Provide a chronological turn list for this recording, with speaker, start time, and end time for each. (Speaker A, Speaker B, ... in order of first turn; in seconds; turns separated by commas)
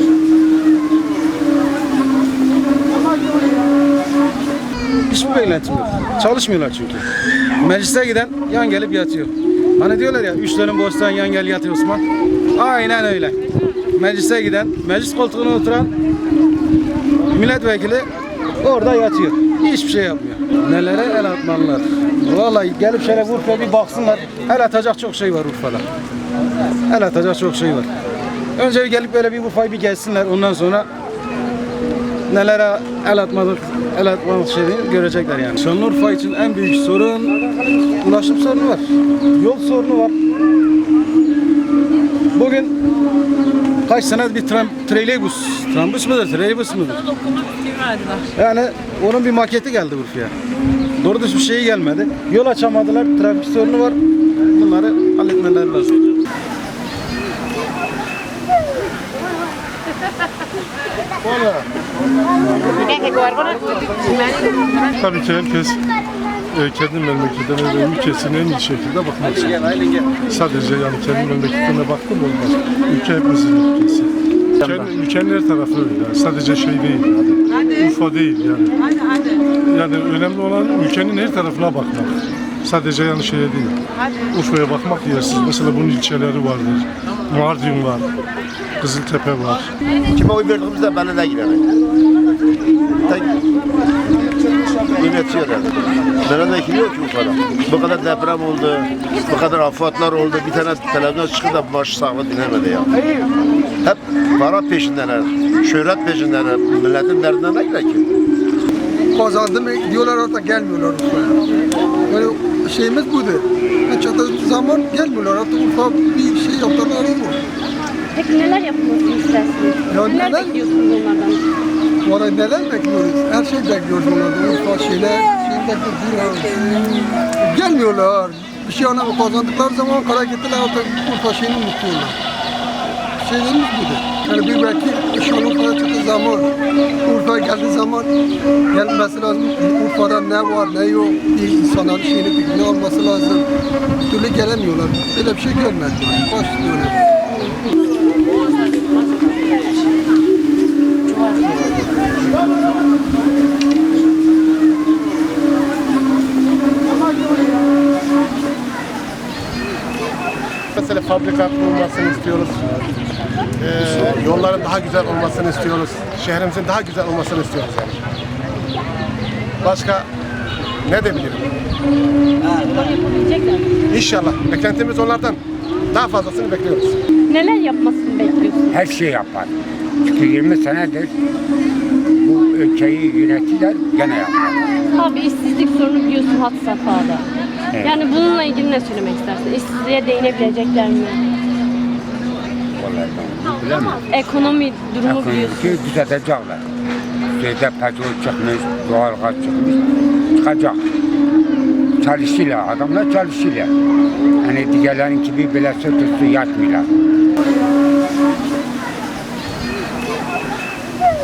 Speaker A: 5.1-7.0, Speaker A: 7.6-12.0, Speaker A: 12.5-13.4, Speaker A: 13.9-15.9, Speaker A: 17.3-18.1, Speaker A: 18.6-25.8, Speaker A: 26.9-27.9, Speaker A: 28.6-30.9, Speaker A: 32.3-37.4, Speaker A: 38.0-40.1, Speaker A: 42.3-42.7, Speaker A: 43.8-47.1, Speaker A: 48.3-50.3, Speaker A: 51.0-54.0, Speaker A: 54.5-56.0, Speaker B: 61.2-61.6, Speaker C: 65.0-65.8, Speaker C: 66.5-74.1, Speaker C: 74.6-78.8, Speaker C: 79.6-83.8, Speaker C: 84.3-88.1, Speaker C: 88.8-89.7, Speaker D: 90.1-91.6, Speaker D: 93.0-93.3, Speaker D: 95.0-102.9, Speaker D: 103.8-108.0, Speaker E: 109.1-111.4, Speaker E: 112.1-117.4, Speaker F: 118.1-121.4, Speaker E: 119.9-120.6, Speaker E: 122.0-132.2, Speaker E: 133.2-136.5, Speaker E: 137.0-138.1, Speaker E: 138.7-143.5, Speaker E: 144.1-147.0, Speaker F: 147.3-147.5, Speaker F: 151.1-152.1, Speaker B: 160.7-162.6, Speaker B: 163.6-168.0, Speaker B: 169.6-170.1, Speaker B: 170.8-171.4, Speaker F: 172.4-173.6, Speaker B: 173.9-175.4, Speaker B: 175.9-177.0, Speaker F: 177.3-178.8, Speaker G: 178.7-181.1, Speaker G: 182.1-184.6, Speaker F: 184.9-187.2, Speaker G: 187.7-188.0, Speaker F: 187.8-191.2, Speaker G: 192.7-194.1, Speaker F: 194.1-195.8, Speaker G: 195.0-196.6, Speaker G: 197.3-199.8, Speaker G: 200.3-200.8, Speaker G: 202.0-203.7, Speaker G: 204.4-206.9